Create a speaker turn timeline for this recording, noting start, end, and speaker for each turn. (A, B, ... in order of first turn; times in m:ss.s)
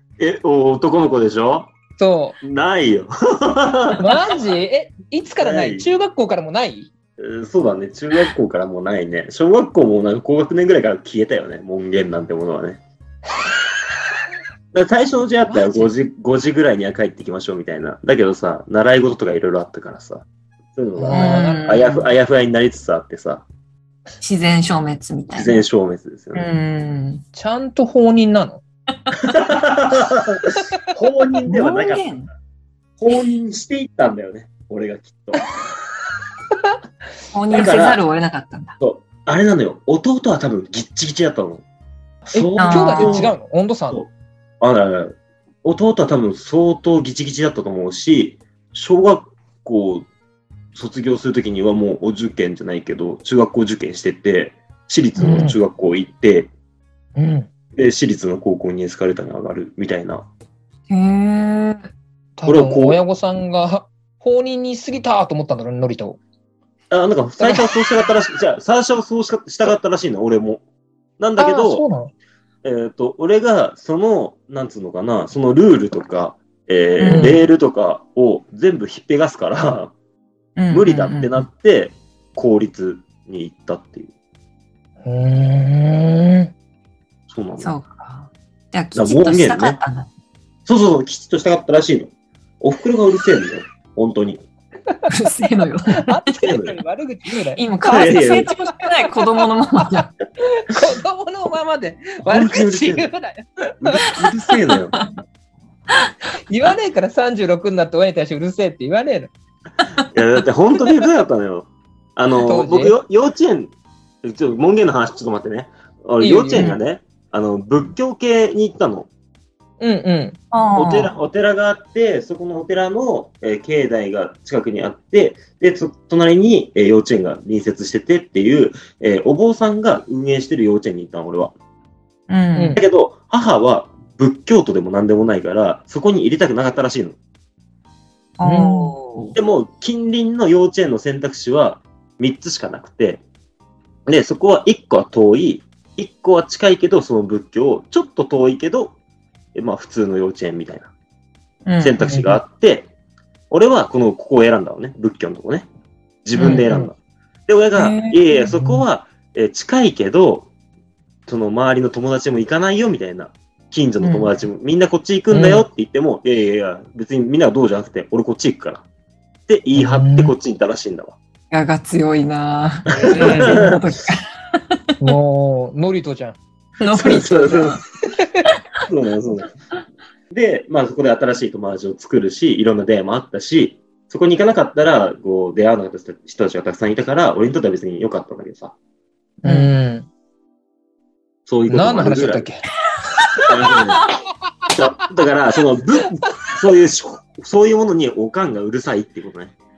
0:00.2-0:01.7 A
0:02.0-0:02.4 B
0:02.4-0:04.2 A
0:04.0-0:06.9 B
0:05.4-0:05.9 A
0:07.2-0:12.8 A
0:14.7-0:23.5 A
0:15.5-0:15.8 B
0:21.0-0:21.7 B
0:21.1-0:22.1 C
0:24.2-0:25.6 C
0:25.4-0:26.5 A
0:26.3-0:27.2 C
0:27.3-0:28.6 B
0:29.2-0:32.1 A
0:31.5-0:32.3 C
0:33.0-0:35.4 A
0:37.3-0:38.8 C
0:37.5-0:38.0 A
0:38.8-0:41.6 A
0:42.3-0:43.4 A
0:42.3-0:44.0 B
0:42.6-0:43.3 C
0:43.9-0:50.1 A
0:50.8-0:56.5 A
0:55.2-0:55.6 B
0:57.2-0:57.5 B
0:57.7-1:00.3 A
1:00.9-1:01.9 C
1:02.4-1:06.2 B
1:02.5-1:03.0 A
1:06.9-1:10.6 A
1:07.4-1:07.6 B
1:11.2-1:11.8 A
1:11.4-1:12.1 B
1:12.6-1:19.9 A
1:17.0-1:17.4 C
1:17.1-1:17.4 B
1:20.6-1:21.5 C
1:20.7-1:24.1 A
1:25.0-1:26.5 B
1:27.3-1:27.7 A
1:27.6-1:30.1 C
1:29.0-1:29.8 A
1:30.7-1:34.4 A
1:35.1-1:36.2 C
1:35.9-1:37.6 B
1:36.4-1:36.8 A
1:37.6-1:40.1 C
1:37.9-1:38.5 A
1:38.7-1:44.1 B
1:42.3-1:43.1 A
1:43.8-1:45.0 A
1:46.5-1:49.3 B
1:50.1-1:59.1 A
1:52.4-1:52.9 B
1:56.2-1:56.7 B
1:56.5-1:56.8 C
1:59.8-2:00.4 B
2:00.5-2:01.1 C
2:00.8-2:11.5 A
2:12.3-2:12.8 C
2:12.6-2:12.8 B
2:12.8-2:17.2 A
2:18.4-2:19.4 C
2:18.4-2:19.0 B
2:19.4-2:23.2 A
2:24.1-2:29.0 A
2:29.6-2:30.9 A
2:31.7-2:32.4 C
2:31.8-2:32.9 A
2:33.5-2:35.7 A
2:36.2-2:37.0 A
2:36.4-2:36.7 C
2:36.5-2:36.9 B
2:37.5-2:40.5 A
2:37.8-2:38.4 C
2:41.3-2:48.8 A
2:44.0-2:44.3 C
2:45.3-2:45.7 B
2:49.5-2:51.2 A
2:49.8-2:50.3 B
2:51.5-2:55.1 C
2:52.9-2:53.8 A
2:53.2-2:53.8 B
2:55.0-2:56.4 B
2:56.8-2:57.8 C
2:57.0-2:57.8 A
2:58.9-2:59.5 A
3:00.3-3:08.8 A
3:09.4-3:10.1 B
3:09.4-3:09.7 C
3:11.5-3:12.4 A
3:11.7-3:12.6 B
3:13.3-3:13.8 C
3:13.5-3:14.0 A
3:14.7-3:19.5 A